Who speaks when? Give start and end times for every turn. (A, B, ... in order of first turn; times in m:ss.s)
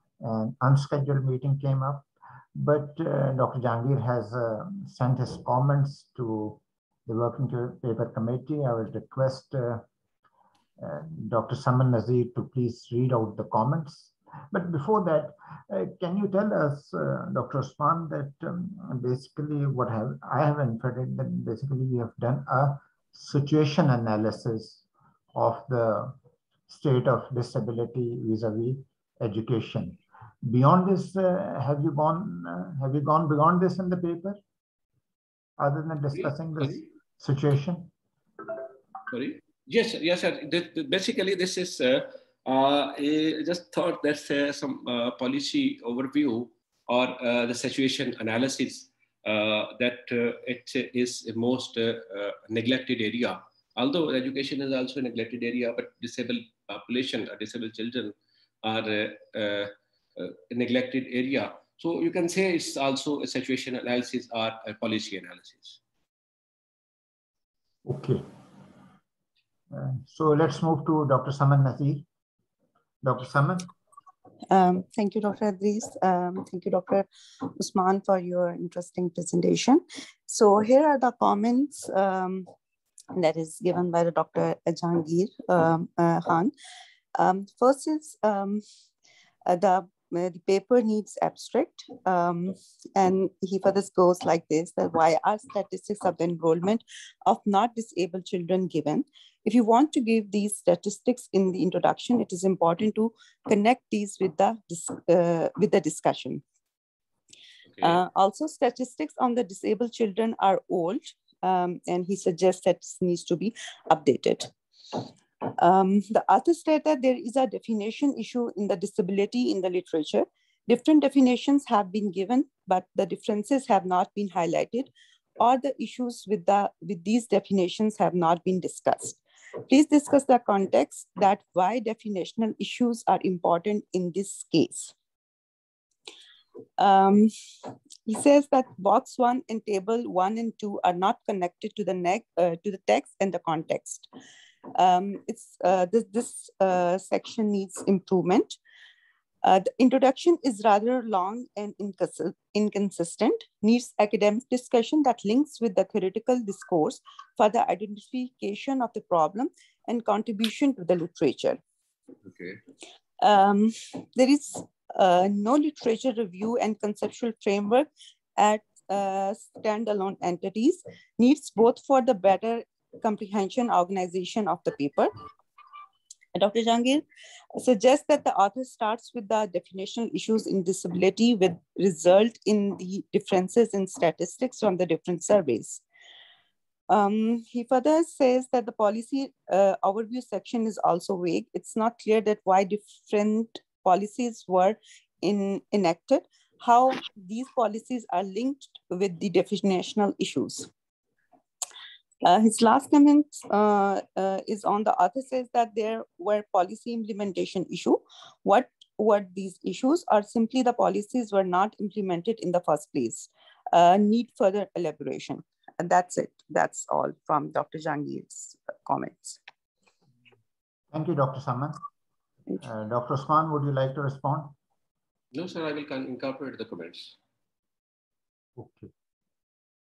0:00.2-0:09.9 A
0:10.8-0:24.8 A
0:25.3-0:26.2 A
0:26.7-0:34.4 A
0:35.6-0:37.9 A
0:39.1-1:05.8 B
1:07.8-1:08.3 A
1:09.7-1:12.1 A
1:13.0-1:13.7 A
1:14.5-1:22.5 C
1:23.1-1:26.5 C
1:27.2-1:28.6 C
1:29.5-1:46.4 C
1:47.7-1:48.0 B
1:47.8-2:14.9 C
2:16.8-2:17.3 C
2:18.1-2:24.1 C
2:24.7-2:28.6 C
2:29.4-2:41.6 C
2:42.3-2:42.6 B
2:43.2-2:55.1 C
2:56.4-2:57.0 C
2:57.6-3:05.8 C
3:06.9-3:20.7 C
3:22.2-3:39.4 C
3:40.9-3:41.8 A
3:42.6-3:44.6 A
3:45.3-3:47.2 B
3:48.6-3:48.9 A